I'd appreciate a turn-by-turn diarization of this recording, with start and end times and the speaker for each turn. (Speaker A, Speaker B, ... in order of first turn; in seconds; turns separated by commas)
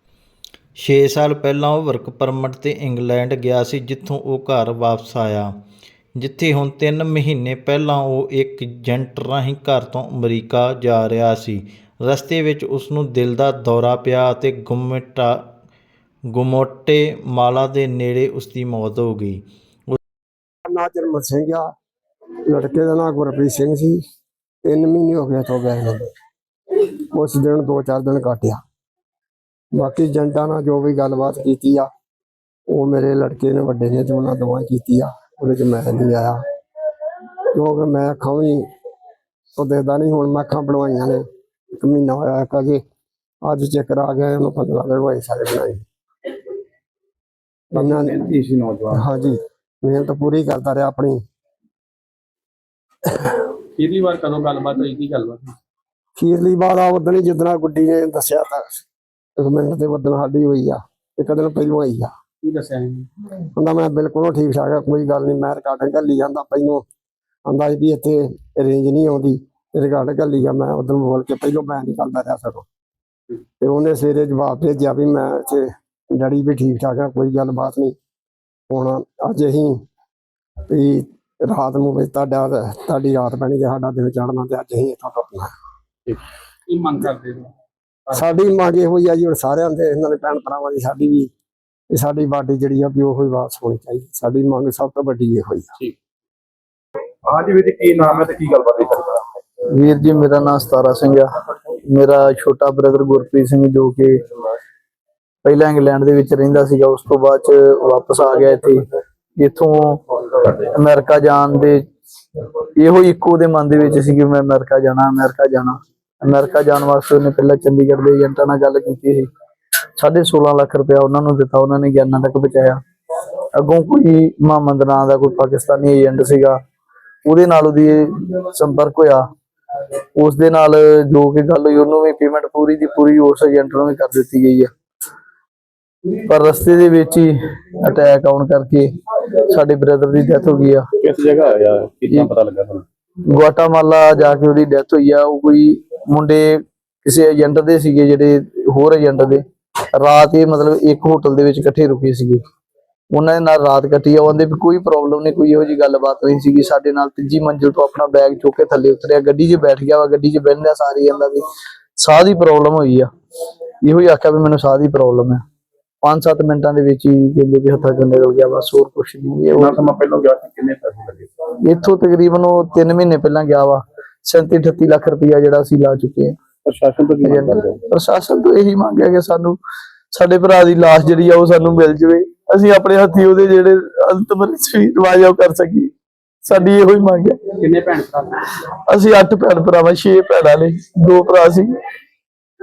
Speaker A: 0.8-5.5, Speaker A: 6.2-15.3, Speaker A: 16.3-20.0, Speaker B: 20.7-21.7, Speaker B: 22.5-24.0, Speaker B: 24.6-26.1, Speaker B: 27.1-28.6, Speaker B: 29.7-31.9, Speaker B: 32.7-36.4, Speaker B: 37.5-38.7, Speaker B: 39.5-41.2, Speaker B: 41.7-42.8, Speaker B: 43.4-45.8, Speaker B: 47.7-48.3, Speaker C: 47.7-49.1, Speaker B: 48.9-51.2, Speaker D: 53.8-55.5, Speaker B: 56.2-58.8, Speaker B: 59.4-62.1, Speaker D: 62.4-63.1, Speaker B: 63.5-66.8, Speaker B: 67.5-72.7, Speaker B: 73.6-78.0, Speaker B: 78.7-79.8, Speaker B: 80.7-85.5, Speaker D: 86.7-87.5, Speaker B: 88.1-91.3, Speaker B: 91.9-95.7, Speaker C: 97.3-99.2, Speaker E: 99.6-104.2, Speaker E: 105.4-108.8, Speaker E: 109.4-111.8, Speaker E: 112.8-119.3, Speaker E: 120.0-122.8, Speaker E: 123.5-126.6, Speaker E: 127.2-129.2, Speaker E: 130.2-134.7, Speaker E: 136.2-138.9, Speaker E: 139.4-140.8, Speaker C: 141.0-142.8, Speaker E: 143.3-149.4, Speaker E: 150.0-152.4, Speaker E: 153.1-161.4, Speaker E: 162.0-163.1, Speaker E: 163.8-165.4, Speaker E: 166.0-169.8, Speaker C: 169.5-171.3, Speaker E: 171.6-176.3, Speaker C: 176.7-177.8, Speaker E: 177.2-179.6, Speaker E: 180.1-185.9, Speaker E: 186.4-187.4, Speaker D: 187.6-188.4, Speaker E: 188.6-191.7